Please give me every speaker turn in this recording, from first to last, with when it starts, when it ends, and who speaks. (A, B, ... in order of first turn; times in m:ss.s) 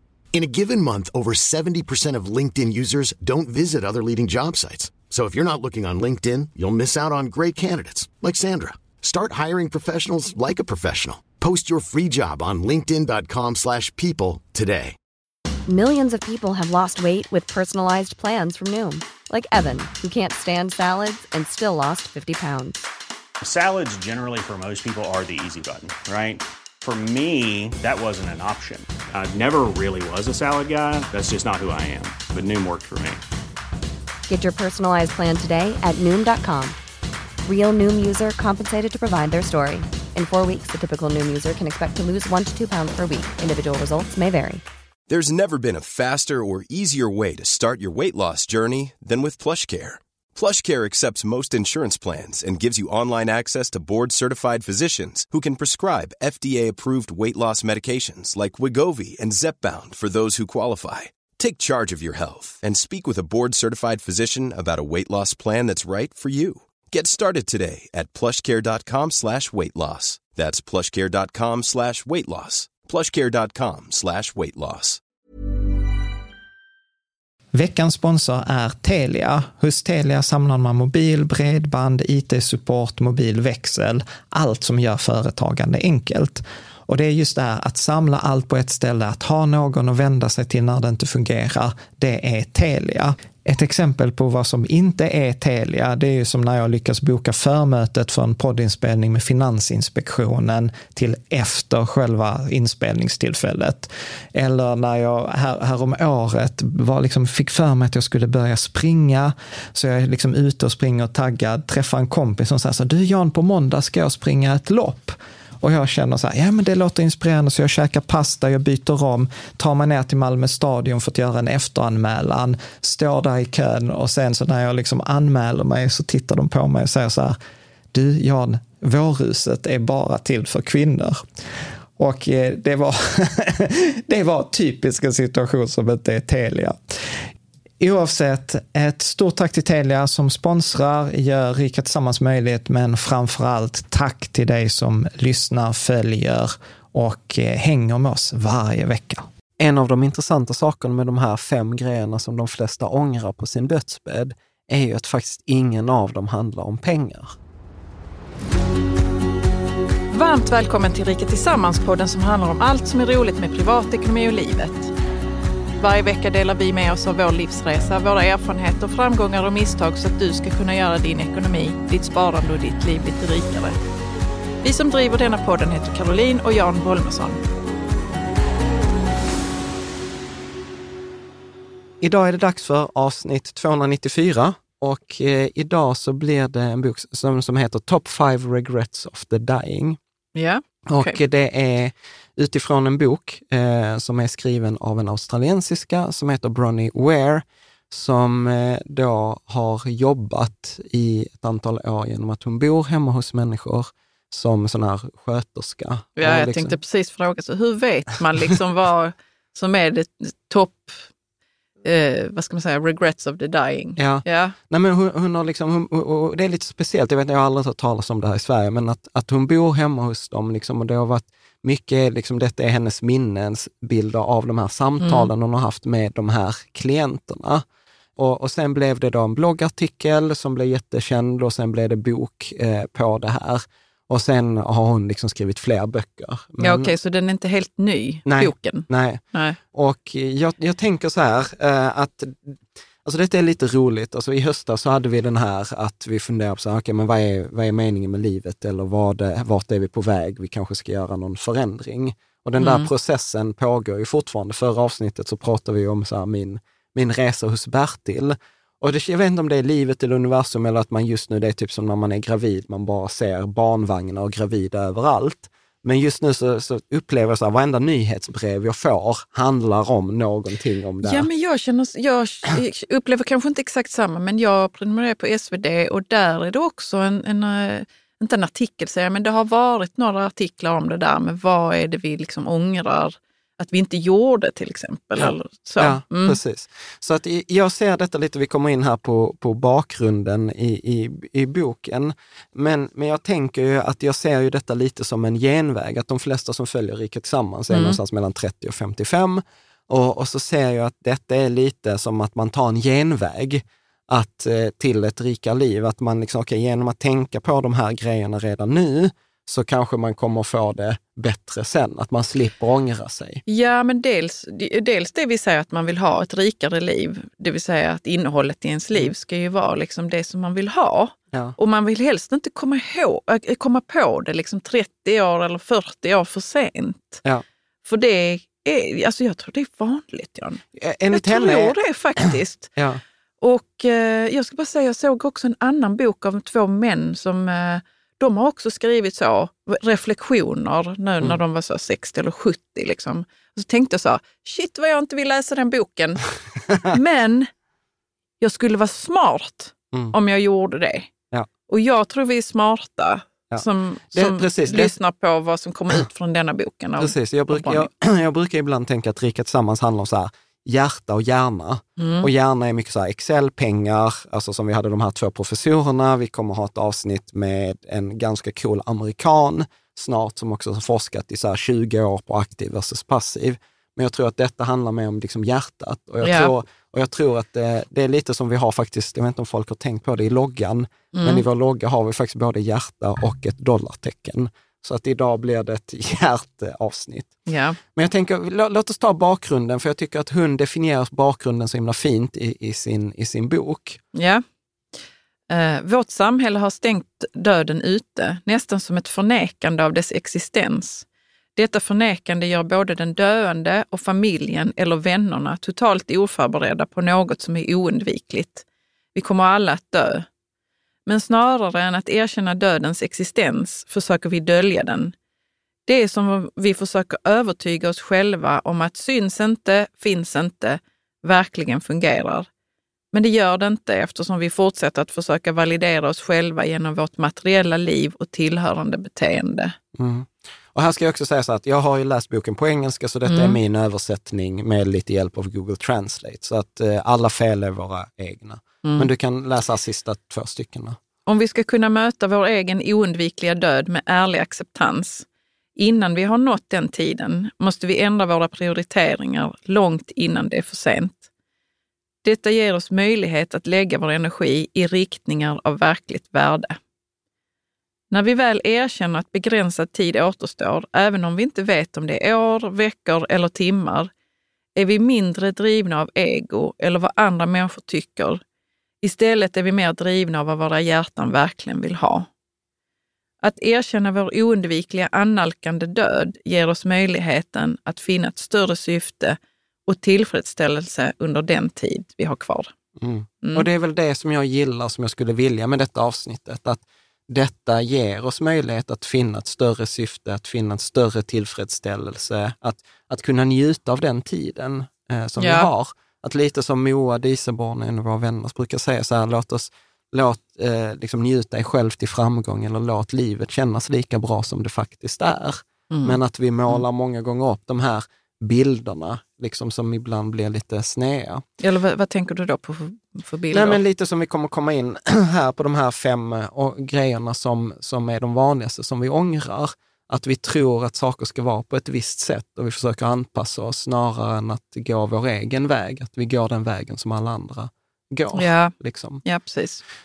0:00.3-0:15.0 A
0:15.7-0:22.8 B
0:23.4-0:33.2 C
0:34.3-0:36.8 B
0:37.4-0:44.6 B
0:45.1-1:15.0 D
1:17.5-2:07.4 E
2:07.9-2:11.2 E
2:12.0-2:16.8 E
2:17.8-2:37.3 E
2:40.1-2:44.9 F
2:45.8-2:53.8 F
2:54.6-2:57.4 F
3:02.0-3:10.0 E
3:10.3-3:11.2 F
3:10.9-3:26.8 E
3:26.2-3:31.1 F
3:31.8-3:34.6 F
3:34.0-3:47.6 E
3:45.0-3:45.3 F
3:48.2-3:56.9 E
3:56.6-3:59.6 F
3:58.2-4:31.3 E
4:12.6-4:12.9 F
4:31.0-4:46.4 F
4:45.2-5:13.4 E
4:57.7-4:58.0 F
5:13.5-5:27.2 F
5:27.8-5:32.7 F
5:30.7-5:31.8 E
5:32.8-5:33.0 E
5:33.4-5:46.2 F
5:46.9-5:47.5 F
5:48.4-5:51.1 F
5:51.7-5:57.9 F
5:53.5-5:54.9 E
5:57.0-6:27.4 E
6:02.0-6:02.3 F
6:16.2-6:16.5 F
6:21.1-6:21.4 F
6:27.5-6:27.8 F
6:27.9-6:34.0 E
6:34.1-6:34.4 F
6:35.5-6:41.0 F
6:41.6-6:50.2 F
6:51.0-6:55.1 F
6:55.8-7:02.5 F
7:03.1-7:09.7 F
7:09.9-7:21.0 E
7:13.2-7:13.6 F
7:18.8-7:19.1 F
7:21.2-7:31.2 F
7:32.2-7:36.8 F
7:38.1-7:44.1 F
7:44.7-7:48.4 F
7:49.0-7:52.3 F
7:53.4-8:02.7 F
8:03.0-8:31.4 E
8:15.4-8:15.7 F
8:25.9-8:26.8 F
8:31.6-8:33.8 F
8:33.5-8:49.2 E
8:48.3-8:48.7 F
8:49.2-8:49.8 F